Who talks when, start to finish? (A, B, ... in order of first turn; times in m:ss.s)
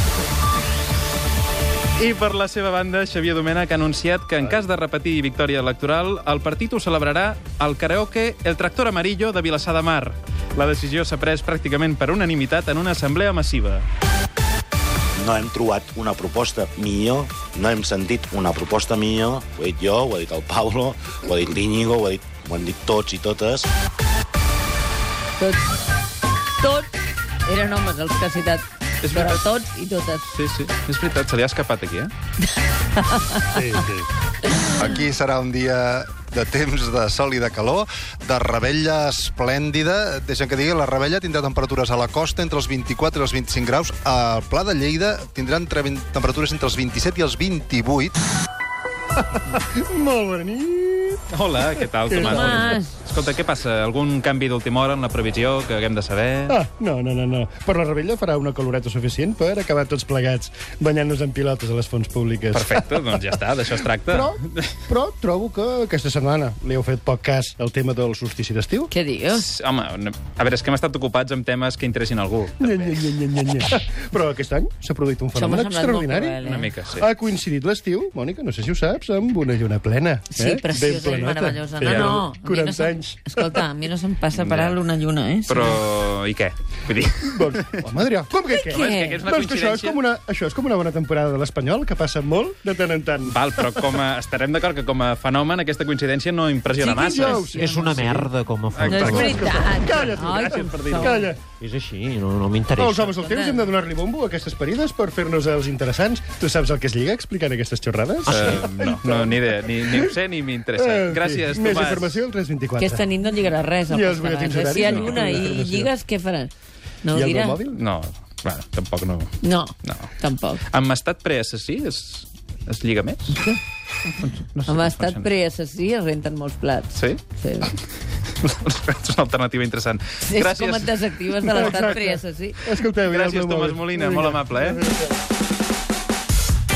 0:02.0-0:13.9 A
0:15.2-0:23.7 B
0:25.4-0:25.6 C
0:26.6-0:26.9 C
0:27.5-0:30.3 C
0:29.0-0:29.4 A
0:30.3-0:32.1 A
0:33.0-0:33.7 C
0:33.6-0:34.0 D
0:34.7-0:48.2 E
0:49.9-0:51.2 D
0:51.3-0:56.6 A
0:52.1-0:52.9 C
0:56.5-1:03.2 D
1:02.5-1:04.8 A
1:04.1-1:08.9 D
1:08.9-1:09.4 C
1:09.3-1:13.1 A
1:12.6-1:16.4 D
1:15.4-1:16.7 C
1:16.4-1:17.1 A
1:17.0-1:23.6 D
1:20.3-1:25.8 C
1:21.8-1:22.2 A
1:24.3-1:24.8 A
1:25.5-1:27.9 A
1:27.4-1:33.4 D
1:28.3-1:29.3 C
1:28.7-1:30.0 A
1:33.3-1:37.5 A
1:36.8-1:38.0 C
1:36.8-1:38.3 D
1:37.5-1:39.4 F
1:38.7-1:39.7 A
1:38.9-1:41.3 C
1:39.1-1:41.4 D
1:40.2-1:41.2 A
1:41.6-1:43.1 F
1:42.8-1:50.2 D
1:43.0-1:43.7 C
1:48.2-1:48.8 F
1:48.3-1:52.2 A
1:50.7-1:53.0 D
1:52.8-1:56.5 C
1:53.9-1:55.9 D
1:54.8-1:55.3 A
1:57.0-1:57.6 C
1:57.1-1:57.8 D
1:57.7-1:59.3 A
1:59.4-2:00.6 C
1:59.8-2:00.1 A
2:00.7-2:03.4 A
2:04.2-2:05.2 A
2:04.7-2:07.7 C
2:06.9-2:07.2 A
2:08.4-2:11.9 A
2:10.2-2:12.6 C
2:11.4-2:15.0 D
2:13.1-2:14.8 A